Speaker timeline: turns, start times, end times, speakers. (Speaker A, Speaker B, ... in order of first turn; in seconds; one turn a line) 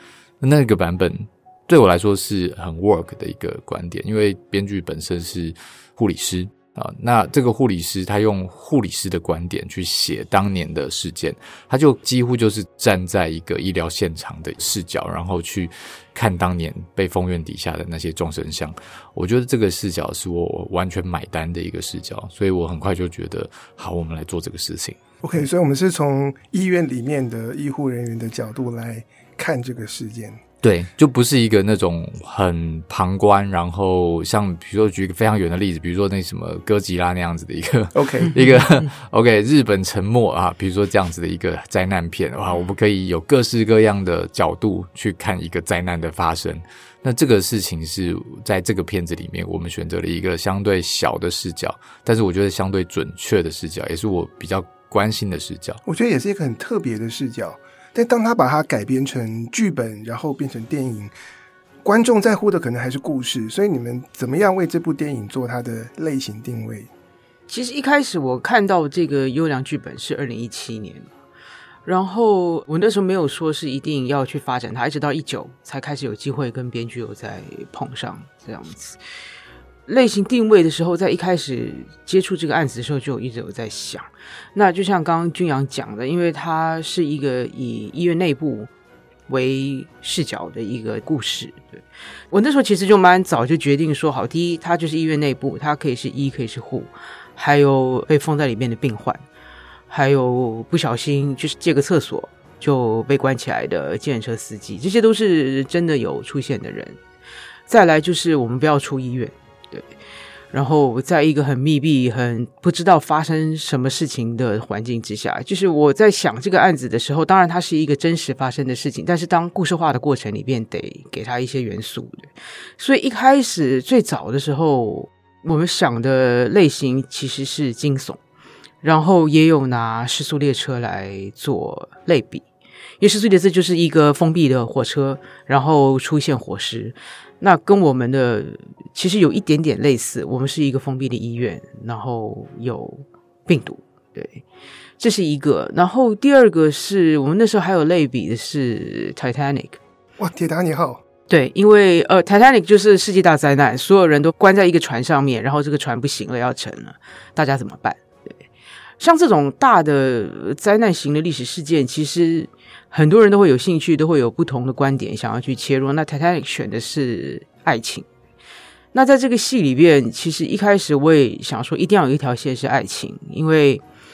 Speaker A: 0.4-25.5
Speaker B: 25.2-30.4
Speaker A: 30.6-55.8
Speaker B: 37.9-38.3
Speaker B: 55.9-61.1
Speaker B: 61.8-66.9
Speaker C: 67.5-71.1
Speaker C: 71.8-79.0
Speaker C: 79.9-88.7
Speaker C: 89.3-91.8
Speaker C: 92.3-99.2
Speaker C: 99.9-107.0
Speaker C: 107.7-109.9
Speaker C: 110.5-128.2
Speaker C: 128.8-132.4
Speaker C: 133.0-144.4
Speaker C: 145.0-149.8
Speaker B: 150.2-151.0
Speaker C: 151.3-158.0
Speaker C: 159.0-168.1
Speaker C: 168.9-173.8